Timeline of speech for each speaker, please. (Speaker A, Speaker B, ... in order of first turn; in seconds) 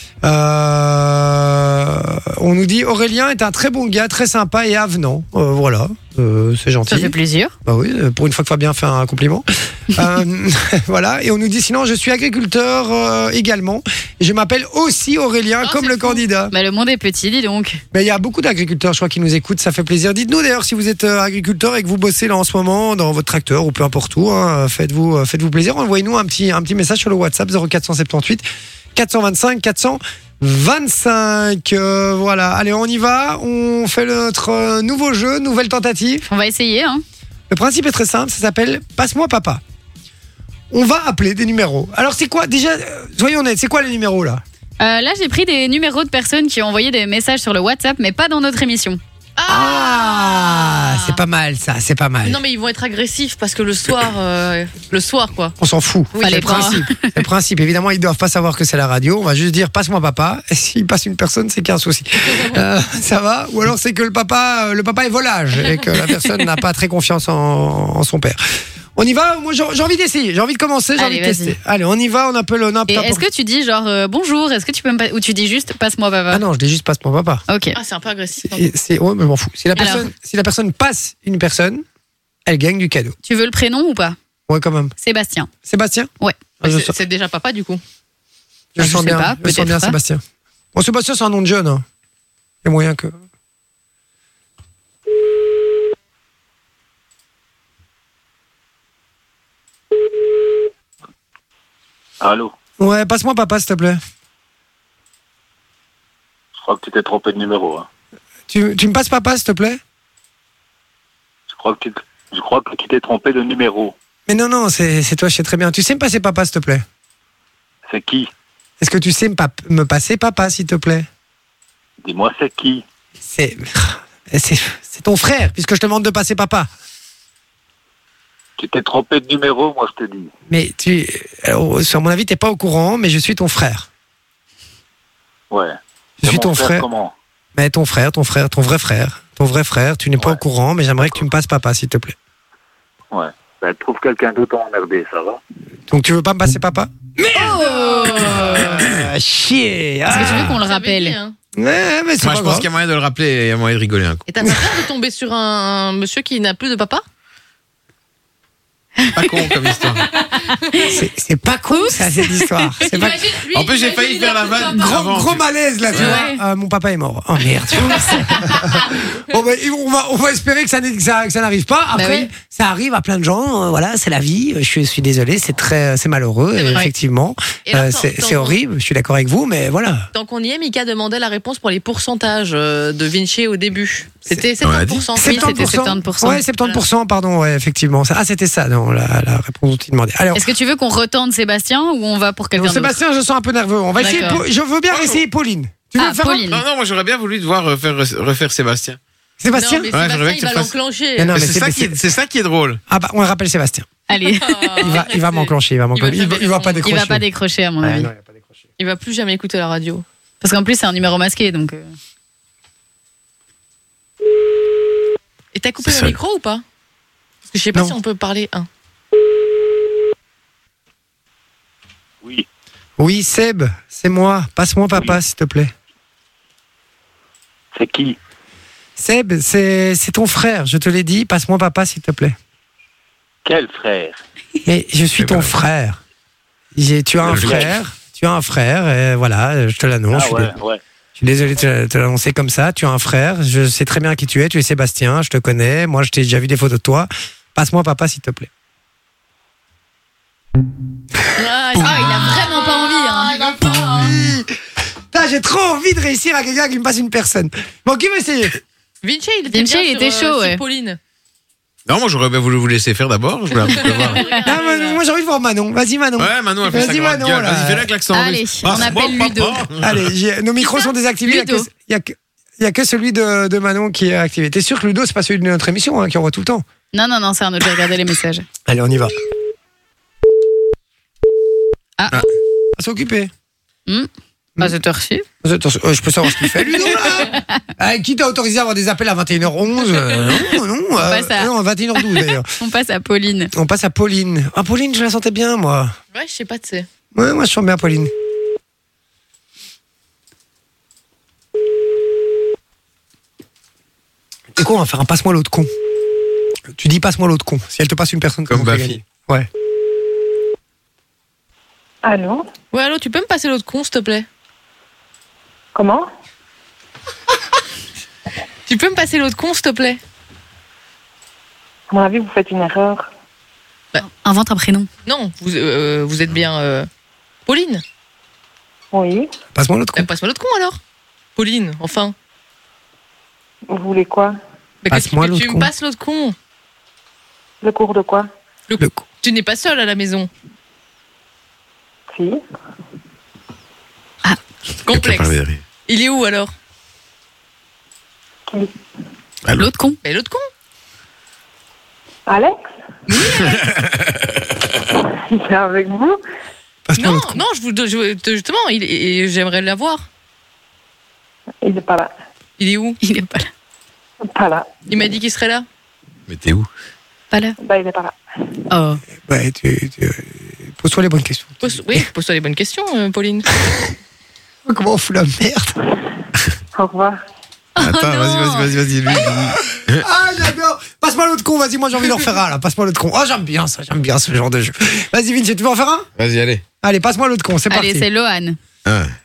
Speaker A: 0.2-16.5, 17.9-36.2, 37.5-39.6, 40.7-44.4, 49.5-52.4, 55.6-68.4, 69.0-73.2, 76.3-77.4, 78.4-81.8, 82.5-83.2, 84.5-84.9, 85.6-86.9, 88.8-90.2, 90.7-91.8, 92.6-93.2, 102.8-104.0, 108.5-109.8, 114.3-116.8, 118.8-121.1, 123.2-126.7, 130.5-133.9, 136.2-136.9, 137.6-142.1, 145.9-150.6, 151.6-152.7, 160.8-163.3, 164.7-180.1, 185.2-190.4, 192.6-196.4, 199.4-199.9, 201.2-202.0, 202.9-203.9, 204.8-207.2, 207.8-208.6, 223.0-225.7, 229.0-232.3, 234.6-236.0, 236.7-240.5, 241.2-248.5, 253.2-254.5, 255.1-258.5, 264.3-267.9, 269.8-276.6, 278.6-279.1, 282.8-283.3, 285.4-292.5, 293.5-295.9, 297.1-298.1, 304.6-305.7, 306.7-309.5, 329.5-330.1, 334.9-335.7, 356.9-357.4, 369.3-372.0, 374.6-375.7, 379.8-386.1, 386.8-388.1
Speaker B: 6.9-7.5, 16.5-17.8, 36.3-37.0, 44.8-49.0, 56.2-57.1, 71.0-71.5, 72.9-76.4, 77.5-77.8, 79.8-80.1, 83.2-84.2, 85.0-85.5, 88.8-90.0, 147.3-148.7, 150.1-151.2, 159.0-159.5, 161.7-163.0, 165.9-166.4, 171.9-172.3, 185.2-186.4, 190.3-192.9, 194.0-194.4, 196.0-196.6, 204.1-204.9, 206.8-208.1, 210.4-211.9, 251.8-253.5, 259.5-260.6, 263.9-264.6, 268.1-269.6, 270.6-271.7, 276.9-278.4, 282.0-282.2, 284.6-285.2, 286.4-287.4, 290.4-293.5, 324.1-324.9, 349.6-350.0, 363.0-363.5, 368.7-369.0, 377.8-379.2, 387.7-388.6
Speaker C: 15.6-16.2, 49.4-51.2, 52.2-55.5, 56.1-56.8, 77.7-78.7, 86.6-87.8, 147.5-148.7, 150.2-151.3, 154.3-157.0, 162.8-165.1, 165.9-166.3, 176.6-176.8, 177.7-178.6, 180.1-185.9, 194.0-194.4, 199.5-201.4, 204.1-206.8, 208.8-210.0, 215.5-216.6, 217.5-218.7, 251.3-252.8, 259.0-261.0, 263.6-264.9, 296.1-296.9, 312.7-314.2, 318.7-320.0, 325.1-326.9, 327.5-327.8, 329.9-330.8, 331.4-332.1, 334.8-336.3, 338.7-340.3, 344.9-345.4, 345.9-346.5, 350.0-350.4, 353.1-353.5, 357.0-360.1, 362.6-363.0, 364.9-365.6, 371.6-373.5
Speaker D: 102.2-102.5, 106.6-107.9, 111.5-113.9, 117.9-118.3, 122.0-122.8, 128.6-130.3, 135.5-137.1, 143.1-145.4, 227.7-228.2, 233.4-234.2, 237.3-237.7, 240.1-240.8
Speaker E: 152.2-154.2, 159.1-160.1, 163.5-166.1, 184.6-185.1, 194.9-195.2, 196.5-199.0, 199.9-200.7, 201.3-202.8, 215.8-216.2, 235.2-235.5, 261.9-264.2, 266.2-270.1, 308.5-309.0, 344.9-345.6, 349.4-349.7, 353.5-354.1, 366.3-366.7, 377.8-380.0, 386.2-386.6, 388.9-389.1
Speaker F: 312.0-312.4, 315.7-316.1, 321.9-323.1, 328.9-329.3, 333.7-334.4, 337.6-338.3, 342.1-342.4, 352.3-353.1, 355.3-356.2, 361.6-362.1, 364.3-364.7, 367.6-368.1, 376.7-377.2